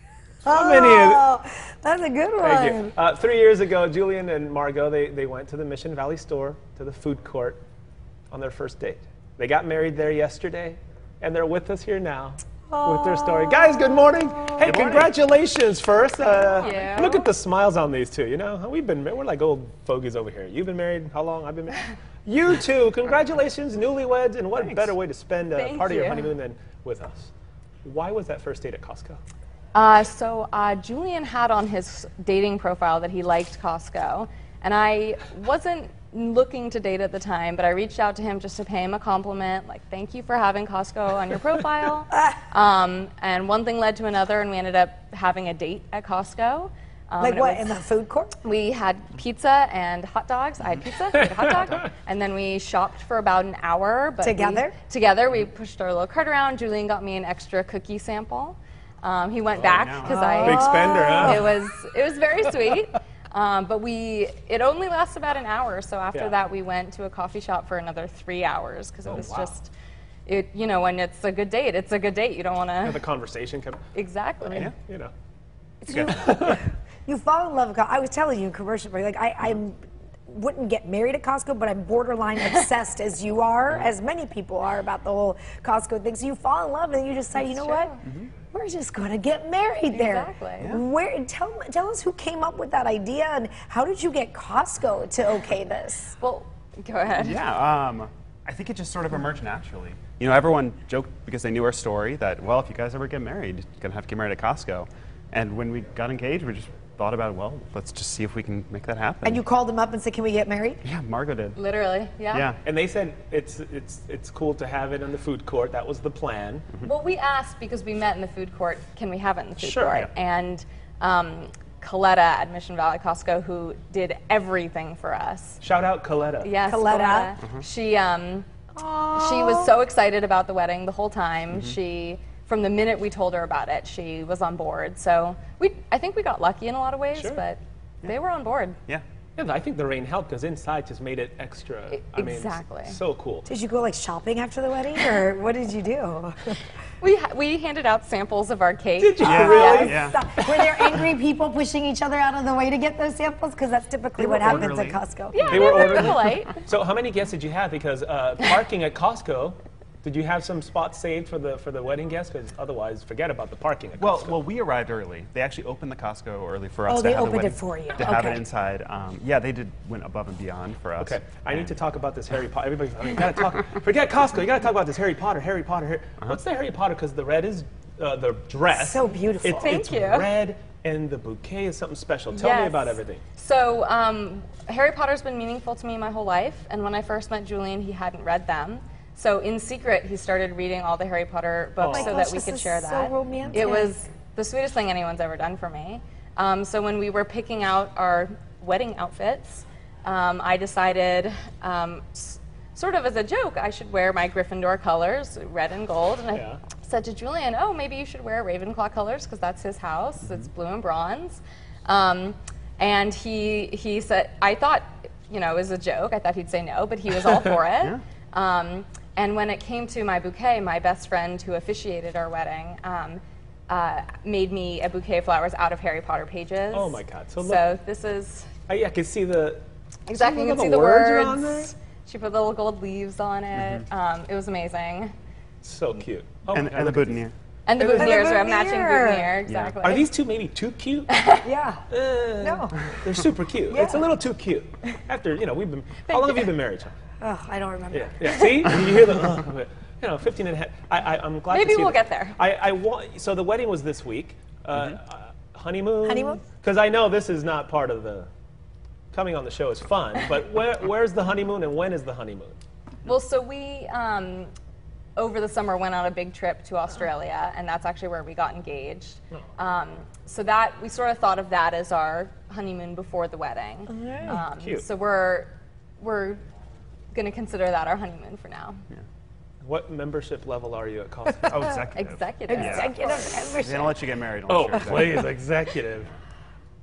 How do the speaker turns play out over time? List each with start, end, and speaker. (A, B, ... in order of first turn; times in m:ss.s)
0:00.4-0:02.9 A
0:00.5-0:01.3 B
0:02.4-0:07.6 B
0:08.3-0:27.3 B
0:12.7-0:14.8 A
0:14.6-0:15.1 C
0:16.5-0:17.3 D
0:24.6-0:24.9 C
0:25.5-0:26.4 D
0:27.8-0:29.2 B
0:29.7-0:47.7 D
0:47.2-0:48.3 A
0:48.4-1:09.7 D
0:54.2-0:54.8 A
0:59.6-1:00.2 C
1:00.1-1:01.5 A
1:00.4-1:01.6 B
1:09.1-1:09.6 B
1:10.3-1:13.0 D
1:12.8-1:13.8 B
1:14.0-1:14.7 D
1:14.4-1:15.1 B
1:15.8-1:27.9 A
1:15.9-1:16.4 C
1:16.1-1:16.6 B
1:27.4-1:28.0 D
1:28.0-1:28.3 C
1:28.5-1:36.2 A
1:29.9-1:30.8 D
1:36.2-1:37.4 D
1:37.1-1:49.4 C
1:49.2-1:50.8 A
1:50.8-1:51.6 C
1:51.6-1:52.5 D
1:52.3-1:52.6 C
1:52.6-1:56.7 B
1:56.8-2:05.6 D
1:59.6-2:00.1 B
2:05.6-2:06.6 B
2:06.4-2:08.5 D
2:06.6-2:07.3 A
2:08.7-2:09.7 A
2:09.2-2:18.8 D
2:11.5-2:11.8 C
2:17.2-2:17.4 B
2:19.4-2:23.5 B
2:21.9-2:23.0 D
2:23.5-2:26.6 A
2:27.0-2:29.9 D
2:29.0-2:31.1 B
2:29.2-2:30.2 C
2:29.3-2:36.1 A
2:34.2-2:35.0 C
2:35.3-2:36.6 D
2:35.4-2:44.4 B
2:44.0-2:51.8 C
2:46.9-2:48.4 A
2:51.0-3:03.2 B
2:58.7-2:59.8 A
2:59.6-3:00.3 D
3:02.3-3:48.6 D
3:11.8-3:12.2 B
3:11.8-3:13.9 A
3:26.3-3:26.6 B
3:46.7-3:47.6 B
3:48.7-3:51.7 B
3:50.1-3:55.1 D
3:53.6-3:53.8 C
3:55.6-3:58.5 B
3:56.5-3:57.3 C
3:57.7-4:00.1 D
3:57.8-3:59.4 A
3:59.5-3:59.8 C
3:59.8-4:01.3 B
4:01.1-4:01.4 D
4:01.4-4:01.9 A
4:01.9-4:06.9 B
4:02.4-4:02.7 A
4:03.7-4:04.1 A
4:06.0-4:06.5 D
4:07.2-4:08.3 A
4:07.9-4:18.3 B
4:08.3-4:08.6 D
4:11.5-4:12.4 D
4:16.0-4:16.4 A
4:19.1-4:22.6 B
4:20.2-4:20.4 D
4:23.0-4:24.5 D
4:25.2-4:36.4 D
4:33.9-4:34.4 A
4:34.3-4:34.9 B
4:37.1-4:38.8 D
4:39.6-4:41.8 B
4:41.5-4:43.0 C
4:41.9-4:43.4 D
4:42.5-4:44.0 A
4:43.5-4:45.3 C
4:44.5-4:46.1 B